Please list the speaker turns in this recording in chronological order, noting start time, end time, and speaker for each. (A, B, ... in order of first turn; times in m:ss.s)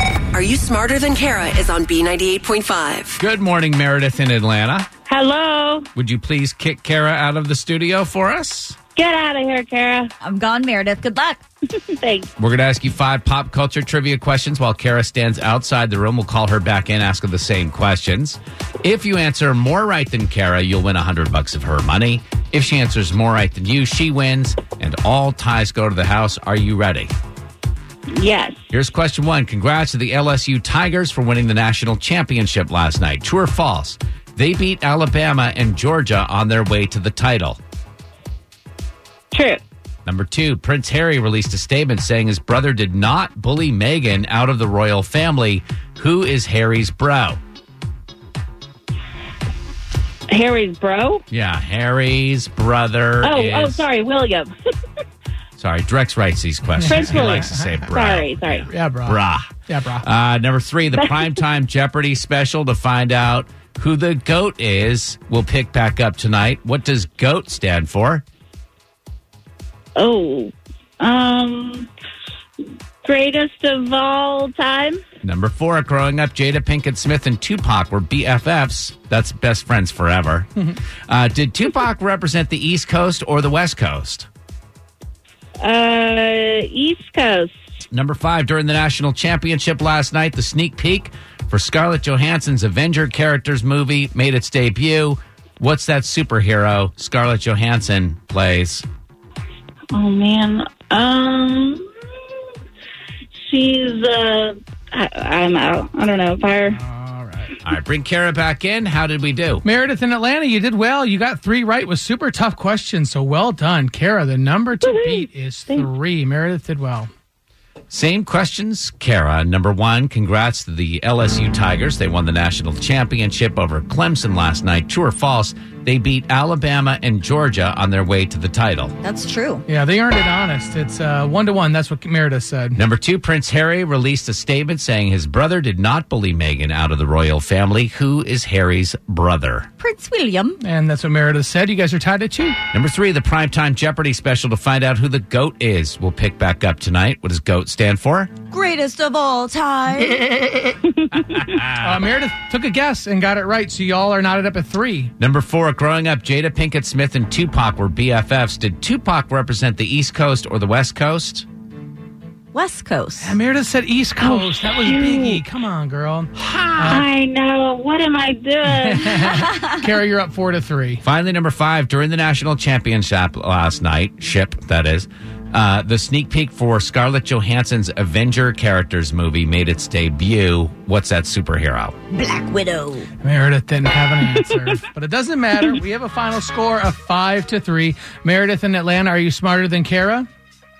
0:00.3-0:03.2 A
0:03.2-0:04.9 B
0:05.1-0:05.9 C
0:06.0-0:08.8 B
0:09.0-0:10.1 C
0:10.2-0:11.4 D
0:11.9-0:12.3 C
0:12.4-0:27.1 B
0:28.1-0:28.6 C
0:28.7-0:37.6 B
0:39.3-0:39.6 C
0:40.1-0:47.4 B
0:50.3-0:51.2 C
0:51.3-0:53.8 B
0:53.2-0:54.5 C
0:55.6-1:08.2 B
0:56.8-0:57.8 E
0:56.9-0:58.7 C
0:58.7-1:00.0 E
1:10.0-1:11.9 C
1:13.0-1:15.0 C
1:15.2-1:20.5 B
1:21.1-1:24.3 B
1:25.6-1:27.5 C
1:27.9-1:38.8 B
1:39.9-1:41.8 C
1:43.5-1:46.8 C
1:46.6-1:47.6 E
1:47.6-1:49.6 B
1:49.6-1:57.1 E
1:54.8-1:55.9 C
1:57.9-2:08.9 B
2:09.0-2:09.6 D
2:09.7-2:12.8 E
2:12.8-2:19.7 B
2:19.8-2:20.6 D
2:20.6-2:22.6 E
2:22.7-2:28.3 B
2:28.5-2:30.4 D
2:31.2-2:32.0 B
2:31.8-2:35.1 E
2:35.2-2:41.5 B
2:42.5-2:43.4 D
2:43.2-2:47.0 E
2:44.2-2:45.4 C
2:46.4-2:47.0 B
2:46.9-2:49.3 C
2:48.7-2:51.0 E
2:51.0-3:02.0 B
3:02.1-3:03.1 D
3:03.2-3:10.3 E